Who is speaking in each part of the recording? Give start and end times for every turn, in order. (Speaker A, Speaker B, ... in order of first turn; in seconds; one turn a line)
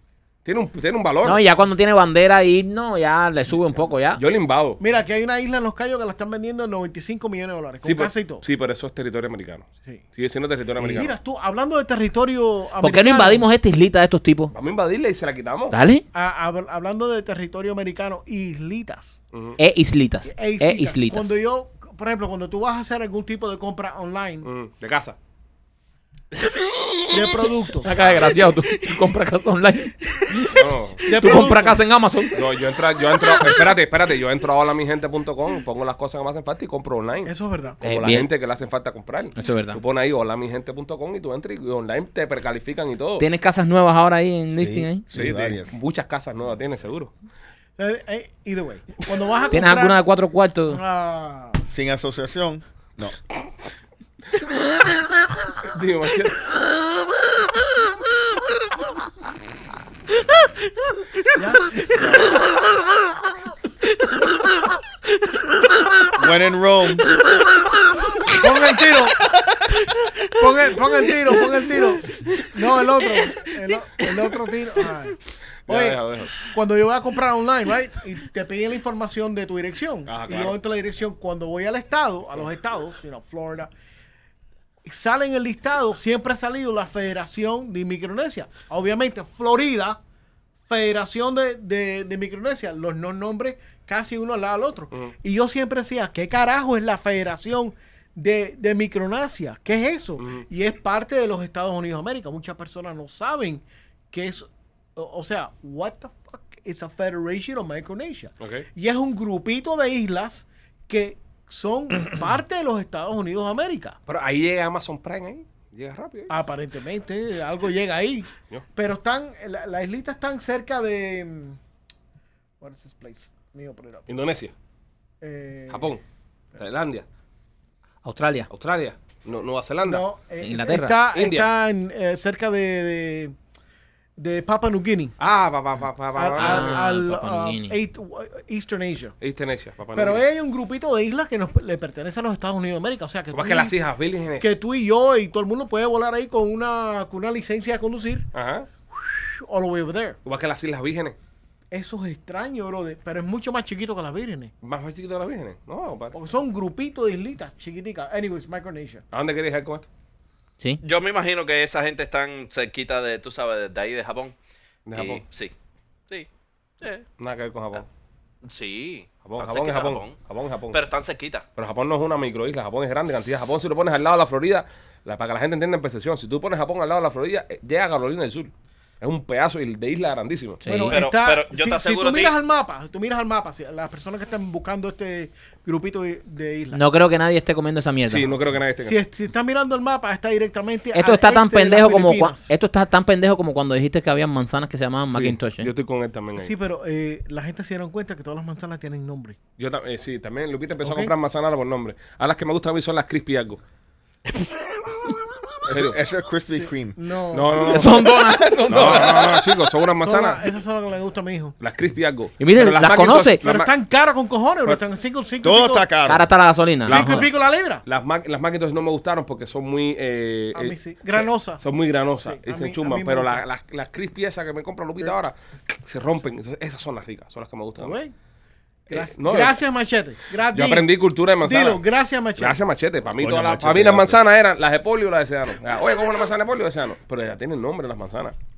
Speaker A: 0.4-1.4
Speaker B: 1.2-4.2
Speaker A: 4.2-4.8
Speaker C: 4.8-8.4
Speaker A: 7.8-11.1
Speaker C: 10.8-13.4
Speaker B: 12.8-14.5
Speaker A: 14.5-15.8
Speaker B: 15.7-16.0
Speaker C: 16.1-19.2
Speaker A: 19.3-19.6
Speaker B: 19.6-21.3
Speaker C: 20.2-24.5
Speaker A: 24.4-25.1
Speaker C: 27.1-28.0
Speaker B: 27.8-32.4
Speaker A: 28.0-28.3
Speaker A: 30.5-31.1
Speaker C: 31.1-31.8
Speaker A: 32.3-43.2
Speaker C: 37.2-37.8
Speaker B: 37.8-38.3
Speaker B: 39.4-39.8
Speaker B: 43.2-45.0
Speaker D: 44.5-45.8
Speaker A: 45.1-47.1
Speaker C: 47.8-50.0
Speaker B: 49.5-50.8
Speaker C: 50.7-51.6
Speaker D: 51.6-53.1
Speaker A: 55.6-56.4
Speaker C: 61.3-61.8
Speaker A: 61.9-62.3
Speaker D: 66.1-67.0
Speaker C: 68.3-69.3
Speaker C: 70.3-83.7
Speaker A: 75.7-76.3
Speaker A: 80.1-80.6
Speaker C: 84.8-90.0
Speaker C: 90.7-114.0
Speaker A: 100.2-100.4
Speaker A: 108.4-108.7
Speaker A: 114.1-116.3
Speaker C: 116.3-121.6
Speaker C: 122.6-124.1
Speaker A: 124.1-124.5
Speaker C: 125.2-126.0
Speaker A: 125.7-126.0
Speaker A: 126.5-127.0
Speaker B: 128.0-128.5
Speaker A: 128.5-130.0
Speaker C: 129.8-133.3
Speaker B: 130.4-131.0
Speaker A: 131.1-131.5
Speaker C: 134.2-135.1
Speaker A: 135.2-136.7
Speaker C: 136.2-139.1
Speaker B: 136.4-137.8
Speaker A: 139.2-140.2
Speaker C: 139.9-143.7
Speaker A: 143.3-144.5
Speaker C: 144.4-148.3
Speaker A: 148.3-148.7
Speaker C: 148.9-150.2
Speaker A: 150.2-151.2
Speaker C: 151.7-154.5
Speaker A: 154.6-156.2
Speaker C: 156.1-159.0
Speaker A: 159.1-159.8
Speaker E: 160.8-164.3
Speaker A: 164.8-165.2
Speaker E: 164.9-165.5
Speaker A: 167.2-167.9
Speaker E: 168.4-170.2
Speaker A: 169.2-170.8
Speaker E: 170.7-171.4
Speaker A: 171.6-180.6
Speaker B: 180.6-181.0
Speaker C: 180.7-186.8
Speaker E: 180.9-182.3
Speaker B: 186.7-188.3
Speaker A: 188.1-189.0
Speaker C: 188.8-192.5
Speaker B: 190.9-195.7
Speaker A: 195.1-196.5
Speaker C: 196.4-199.4
Speaker A: 199.6-203.6
Speaker C: 200.8-201.1
Speaker D: 205.7-207.0
Speaker A: 205.7-206.0
Speaker C: 206.5-208.0
Speaker A: 207.3-208.1
Speaker B: 207.6-209.0
Speaker D: 208.0-209.6
Speaker A: 208.7-210.4
Speaker C: 210.0-211.5
Speaker A: 211.6-213.7
Speaker B: 212.4-213.4
Speaker C: 213.4-215.9
Speaker D: 215.4-216.3
Speaker B: 216.1-217.3
Speaker C: 216.8-217.8
Speaker A: 216.9-217.3
Speaker A: 217.8-228.0
Speaker C: 220.5-221.6
Speaker C: 222.2-223.4
Speaker C: 227.8-228.1
Speaker A: 228.9-229.6
Speaker C: 228.9-230.9
Speaker A: 230.5-231.8
Speaker C: 231.4-232.6
Speaker A: 232.4-238.3
Speaker D: 233.2-234.2